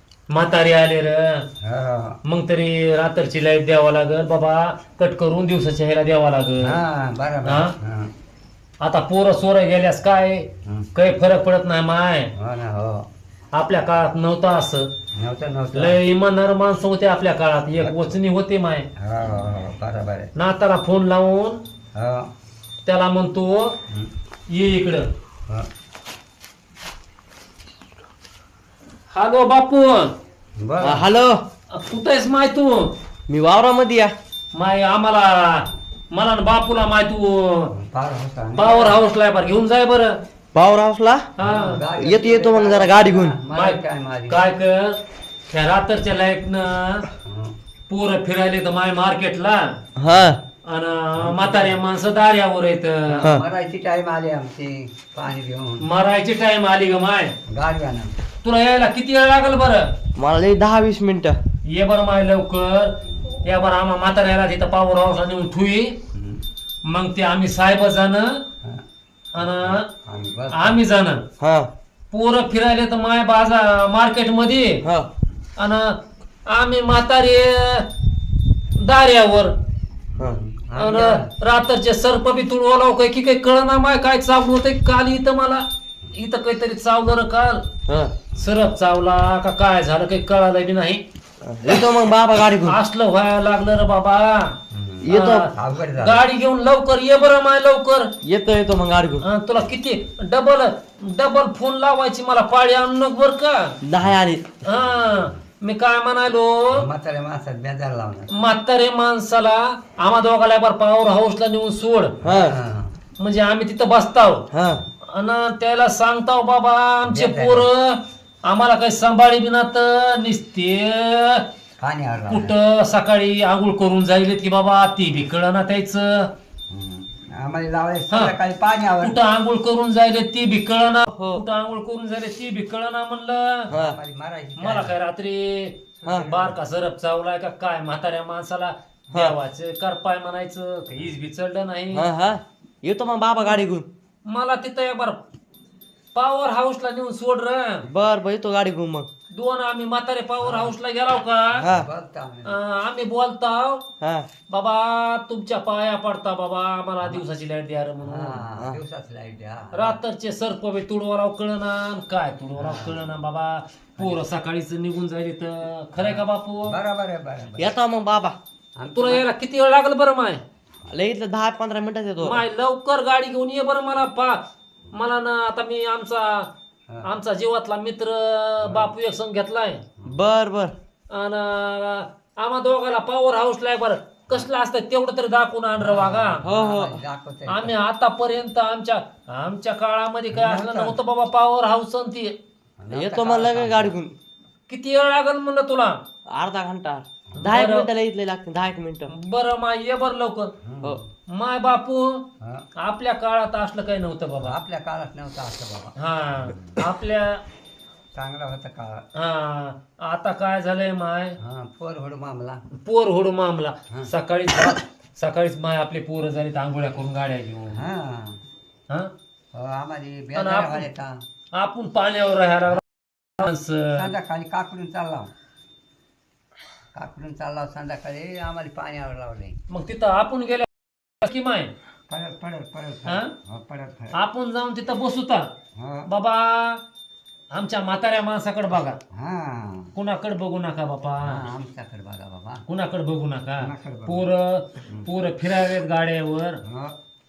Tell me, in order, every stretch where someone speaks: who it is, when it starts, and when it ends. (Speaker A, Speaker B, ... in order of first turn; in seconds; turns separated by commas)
Speaker A: 0.3-1.5, Speaker B: 1.6-2.2, Speaker A: 2.2-6.8, Speaker B: 6.6-8.1, Speaker A: 7.4-7.7, Speaker A: 8.8-12.3, Speaker B: 10.6-10.9, Speaker B: 12.3-13.1, Speaker A: 13.5-14.9, Speaker B: 15.1-16.0, Speaker A: 15.7-18.9, Speaker B: 17.8-18.2, Speaker B: 18.9-20.3, Speaker A: 20.4-21.6, Speaker B: 21.9-22.3, Speaker A: 22.9-23.8, Speaker A: 24.5-25.1, Speaker A: 29.1-30.1, Speaker B: 30.6-31.1, Speaker C: 30.8-31.4, Speaker A: 31.7-32.9, Speaker C: 33.3-34.1, Speaker A: 34.5-37.7, Speaker B: 37.7-39.0, Speaker A: 38.5-40.2, Speaker C: 40.5-41.3, Speaker A: 41.4-41.8, Speaker B: 41.4-44.4, Speaker C: 42.0-43.4, Speaker A: 43.5-47.0, Speaker B: 47.2-47.5, Speaker A: 47.9-49.8, Speaker C: 50.0-50.4, Speaker A: 50.6-53.3, Speaker B: 51.1-51.8, Speaker B: 53.1-55.9, Speaker A: 55.8-57.3, Speaker B: 57.5-58.1, Speaker A: 58.4-59.9, Speaker C: 60.1-61.4, Speaker A: 61.6-66.0, Speaker B: 66.1-66.4, Speaker A: 66.8-68.4, Speaker A: 69.3-69.9, Speaker B: 69.4-70.8, Speaker A: 70.5-71.2, Speaker C: 71.4-71.7, Speaker A: 72.1-74.8, Speaker A: 75.6-77.9, Speaker A: 78.8-79.5, Speaker B: 80.2-81.3, Speaker A: 80.8-87.6, Speaker C: 87.9-88.1, Speaker A: 88.3-91.0, Speaker C: 91.5-92.8, Speaker A: 92.7-94.6, Speaker B: 94.7-96.2, Speaker C: 95.0-95.5, Speaker A: 95.1-98.1, Speaker C: 98.2-99.2, Speaker A: 99.2-103.8, Speaker C: 103.8-104.4, Speaker A: 104.6-106.8, Speaker B: 104.7-105.3, Speaker B: 106.7-108.4, Speaker A: 108.3-112.1, Speaker B: 112.2-112.9, Speaker C: 112.2-112.5, Speaker A: 113.2-114.5, Speaker C: 114.5-114.8, Speaker A: 115.0-121.5, Speaker B: 117.0-117.7, Speaker B: 121.8-122.5, Speaker A: 122.3-126.3, Speaker B: 126.7-129.2, Speaker A: 129.0-133.7, Speaker C: 131.2-131.4, Speaker C: 133.7-134.0, Speaker B: 133.7-134.9, Speaker A: 134.6-142.1, Speaker B: 136.0-136.6, Speaker C: 136.1-136.3, Speaker C: 141.9-143.9, Speaker A: 144.2-145.2, Speaker A: 146.1-147.8, Speaker C: 147.8-149.1, Speaker A: 149.3-151.6, Speaker B: 150.4-150.7, Speaker B: 151.6-152.6, Speaker C: 151.6-151.9, Speaker A: 152.4-153.8, Speaker C: 154.0-154.3, Speaker A: 154.5-158.4, Speaker B: 158.0-160.0, Speaker A: 159.7-166.8, Speaker B: 162.6-163.2, Speaker B: 164.0-164.2, Speaker B: 166.0-167.7, Speaker C: 167.6-168.3, Speaker B: 168.8-169.2, Speaker A: 168.9-170.4, Speaker C: 170.9-172.4, Speaker A: 172.2-176.5, Speaker A: 177.0-179.8, Speaker B: 178.6-178.9, Speaker C: 180.0-180.7, Speaker A: 181.1-186.4, Speaker B: 185.8-187.7, Speaker C: 186.4-187.0, Speaker A: 187.5-192.3, Speaker B: 190.3-191.0, Speaker B: 192.8-194.0, Speaker C: 192.9-194.1, Speaker A: 194.7-196.0, Speaker C: 196.3-199.1, Speaker A: 197.4-197.9, Speaker A: 199.1-200.5, Speaker B: 200.6-201.1, Speaker A: 201.3-202.2, Speaker B: 202.4-202.7, Speaker A: 202.8-204.6, Speaker B: 204.4-206.8, Speaker A: 206.0-207.4, Speaker B: 208.1-209.0, Speaker A: 209.2-211.4, Speaker B: 211.4-212.6, Speaker A: 212.7-217.8, Speaker B: 217.7-218.4, Speaker B: 219.5-221.2, Speaker A: 220.3-220.8, Speaker A: 221.5-222.8, Speaker A: 223.4-224.1, Speaker B: 223.9-225.3, Speaker B: 226.9-229.6, Speaker A: 229.7-230.7, Speaker A: 231.2-231.7, Speaker B: 232.1-234.2, Speaker A: 233.1-233.3, Speaker A: 234.1-235.5, Speaker B: 235.8-236.1, Speaker A: 236.1-236.8, Speaker A: 237.5-239.0, Speaker B: 239.1-239.9, Speaker A: 239.9-241.4, Speaker B: 241.2-242.6, Speaker A: 242.7-246.6, Speaker B: 243.6-244.3, Speaker B: 244.8-245.1, Speaker B: 246.6-246.9